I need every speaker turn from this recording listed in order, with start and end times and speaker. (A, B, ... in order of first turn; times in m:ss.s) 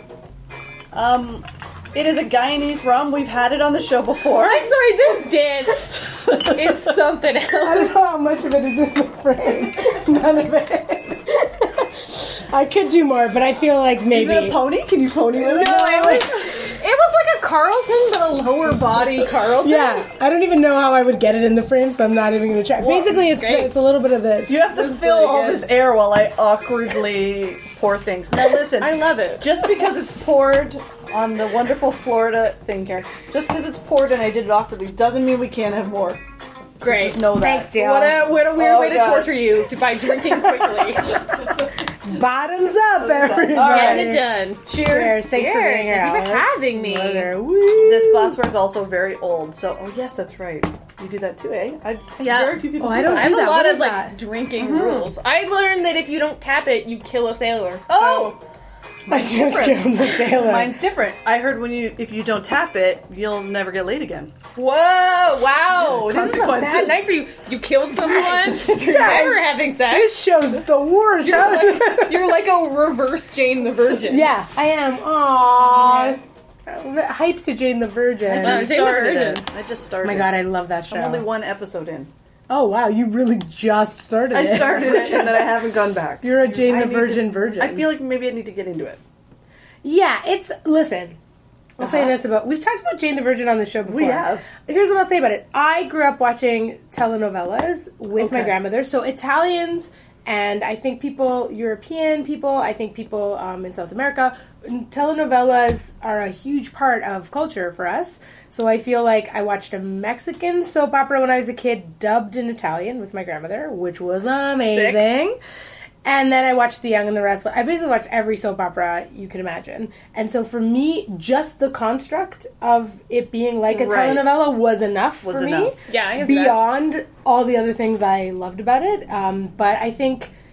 0:00.9-0:04.7 A
0:04.3-0:08.0 B
0:05.7-0:07.0 A
0:07.6-0:14.6 C
0:14.1-0:16.7 A
0:15.3-0:16.5 C
0:15.4-0:20.0 B
0:19.6-0:24.6 C
0:22.8-0:23.7 B
0:24.5-0:36.2 A
0:24.6-0:25.7 B
0:28.3-0:29.6 B
0:36.8-0:37.7 A
0:36.8-0:41.4 B
0:37.3-0:38.2 C
0:38.5-0:41.7 A
0:42.0-0:48.4 C
0:43.0-0:45.3 A
0:43.6-0:47.3 B
0:47.8-0:53.5 A
0:52.2-0:58.4 B
0:52.8-0:54.1 C
0:54.6-0:55.1 A
0:57.9-0:58.4 A
0:59.1-1:00.7 C
0:59.1-1:00.2 B
1:00.3-1:04.3 A
1:04.6-1:10.2 B
1:05.7-1:07.1 A
1:08.2-1:12.3 C
1:08.4-1:09.2 A
1:11.2-1:14.3 B
1:14.1-1:18.8 C
1:15.8-1:16.1 B
1:18.3-1:20.3 A
1:18.3-1:19.4 B
1:20.0-1:21.2 C
1:20.9-1:22.1 A
1:22.5-1:25.4 C
1:24.3-1:29.0 A
1:26.2-1:27.9 C
1:29.8-1:31.2 C
1:31.8-1:55.4 C
1:31.8-1:32.1 A
1:33.8-1:34.4 A
1:38.2-1:38.5 A
1:54.4-1:55.0 B
1:56.0-2:10.3 C
2:03.7-2:04.3 A
2:05.2-2:05.7 A
2:05.9-2:06.6 B